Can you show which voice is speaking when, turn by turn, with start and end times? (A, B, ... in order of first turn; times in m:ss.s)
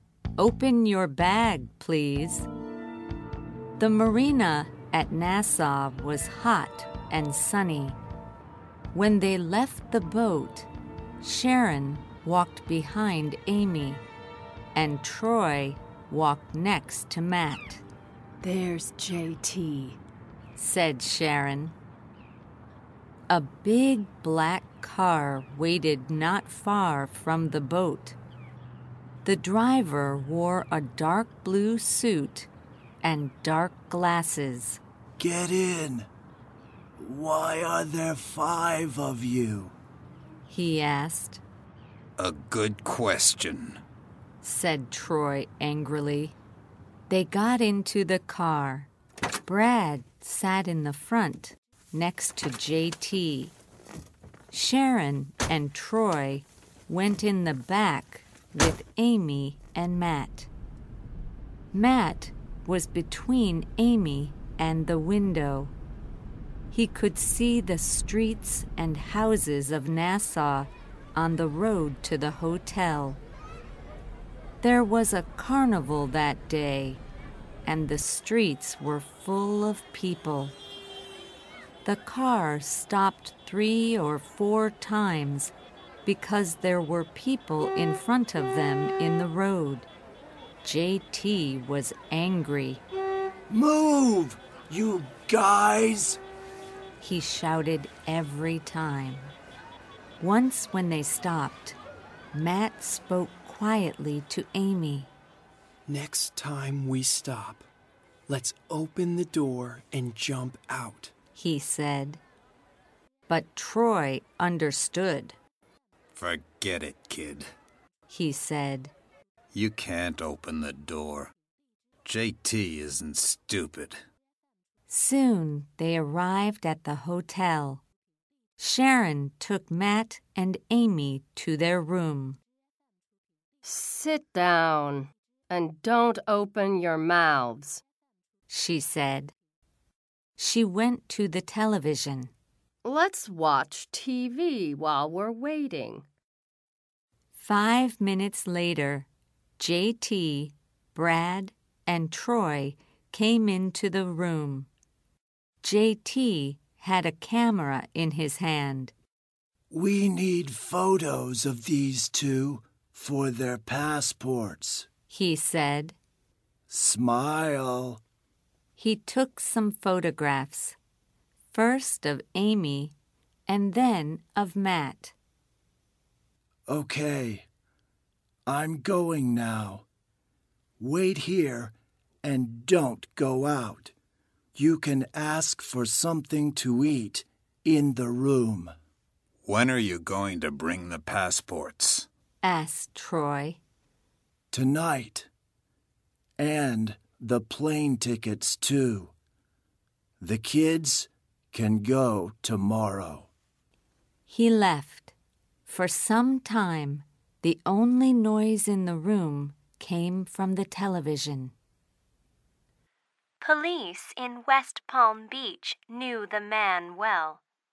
0:00.4-0:02.5 A
0:03.8-0:08.0 A
0:08.9-0:10.7 A
0:11.2-0:14.0 A
0:14.7-0:17.8 A
0:18.4-0:20.0 B
0:20.6-0:21.7 A
0:23.3-0:28.2 A
0:29.2-0:32.5 A
0:33.0-0:34.8 A
0:35.2-0:36.1 C
0:37.0-0:39.7 C
0:40.5-0:41.4 A
0:42.2-0:43.8 D
0:44.4-0:46.4 A
0:47.1-0:48.9 A
0:49.4-0:53.5 A
0:54.5-1:00.5 A
1:01.7-1:05.7 A
1:06.7-1:13.2 A
1:14.6-1:17.0 A
1:17.6-1:20.5 A
1:21.8-1:25.5 A
1:26.0-1:29.9 A
1:30.6-1:32.8 A
1:33.5-1:36.2 C
1:37.0-1:39.3 A
1:40.2-1:41.8 A
1:42.3-1:45.1 A
1:45.9-1:47.6 E
1:48.3-1:51.1 E
1:51.3-1:52.2 A
1:53.3-1:55.4 A
1:56.1-1:57.5 D
1:58.1-1:58.9 A
1:59.5-2:01.3 D
2:02.0-2:04.0 D
2:04.9-2:07.8 A
2:08.6-2:12.4 A
2:13.6-2:17.8 B
2:18.5-2:19.3 A
2:20.4-2:22.3 A
2:22.8-2:26.0 B
2:27.3-2:29.1 A
2:29.6-2:34.7 A
2:35.6-2:38.9 A
2:39.7-2:44.9 C
2:45.1-2:46.0 A
2:46.7-2:48.0 C
2:48.8-2:50.8 A
2:51.5-2:52.9 A
2:53.5-2:55.1 A
2:56.7-2:57.4 C
2:58.4-2:59.8 C
3:00.8-3:03.9 C
3:04.5-3:08.7 C
3:09.4-3:12.1 D
3:12.4-3:13.6 A
3:14.5-3:15.3 C
3:16.4-3:19.1 C
3:20.2-3:23.3 C
3:24.3-3:25.1 A
3:25.6-3:31.5 A
3:33.4-3:37.4 F